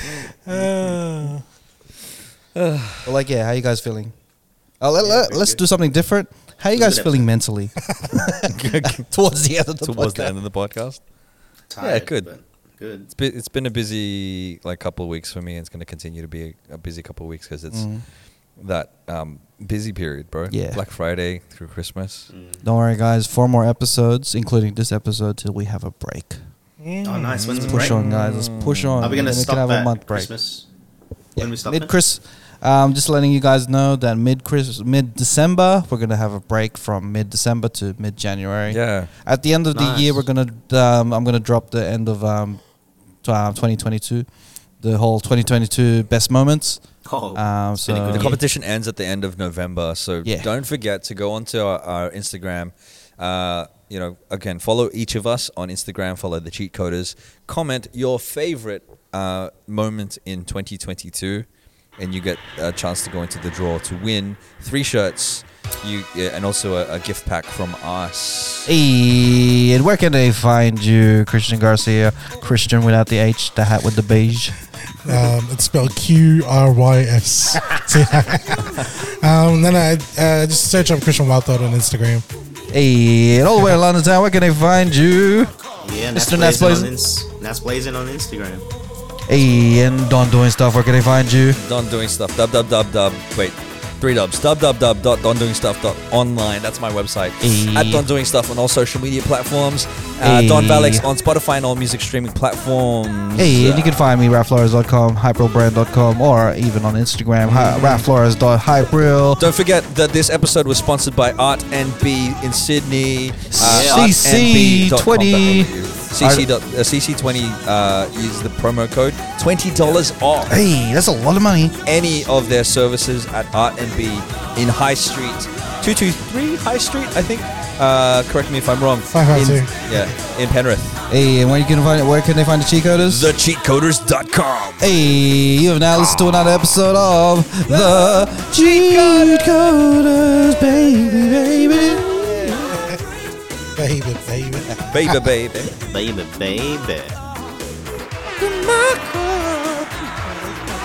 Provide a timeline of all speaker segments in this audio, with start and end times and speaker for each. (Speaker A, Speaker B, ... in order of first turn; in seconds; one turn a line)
Speaker A: 0.5-1.4
Speaker B: 2.5-3.1
Speaker C: 3.0-4.1
Speaker C: 4.8-10.3
Speaker D: 5.0-5.7
Speaker D: 6.7-7.3
Speaker B: 8.5-9.1
Speaker B: 9.8-11.0
Speaker D: 11.7-13.1
Speaker B: 11.8-12.3
Speaker B: 13.1-17.9
Speaker C: 17.7-18.0
Speaker B: 18.6-22.3
Speaker C: 20.5-20.8
Speaker D: 22.3-22.6
Speaker C: 22.6-26.4
Speaker A: 26.8-27.5
Speaker D: 27.0-28.0
Speaker B: 27.4-29.2
Speaker C: 27.7-30.3
Speaker D: 29.0-30.6
Speaker C: 31.4-42.6
Speaker D: 31.4-31.9
Speaker B: 38.7-39.1
Speaker D: 39.7-40.2
Speaker C: 43.2-44.3
Speaker C: 44.8-46.8
Speaker D: 47.0-48.4
Speaker C: 47.4-48.4
Speaker B: 48.1-61.5
Speaker C: 50.2-50.5
Speaker B: 62.0-68.7
Speaker C: 68.7-74.5
Speaker A: 75.0-82.2
Speaker C: 82.7-85.5
Speaker D: 85.8-88.7
Speaker C: 86.1-86.9
Speaker C: 89.3-91.6
Speaker B: 91.6-104.0
Speaker C: 97.4-98.1
Speaker C: 100.2-101.0
Speaker C: 103.4-109.4
Speaker B: 107.4-108.1
Speaker B: 109.4-120.6
Speaker C: 113.5-116.5
Speaker D: 113.6-114.2
Speaker C: 120.5-121.8
Speaker B: 121.8-131.0
Speaker A: 129.1-130.1
Speaker C: 131.1-133.3
Speaker B: 133.1-134.9
Speaker C: 134.8-142.9
Speaker D: 135.9-136.4
Speaker A: 142.6-143.0
Speaker A: 143.8-144.8
Speaker B: 144.9-145.8
Speaker C: 145.0-145.3
Speaker D: 145.9-147.2
Speaker C: 148.4-150.0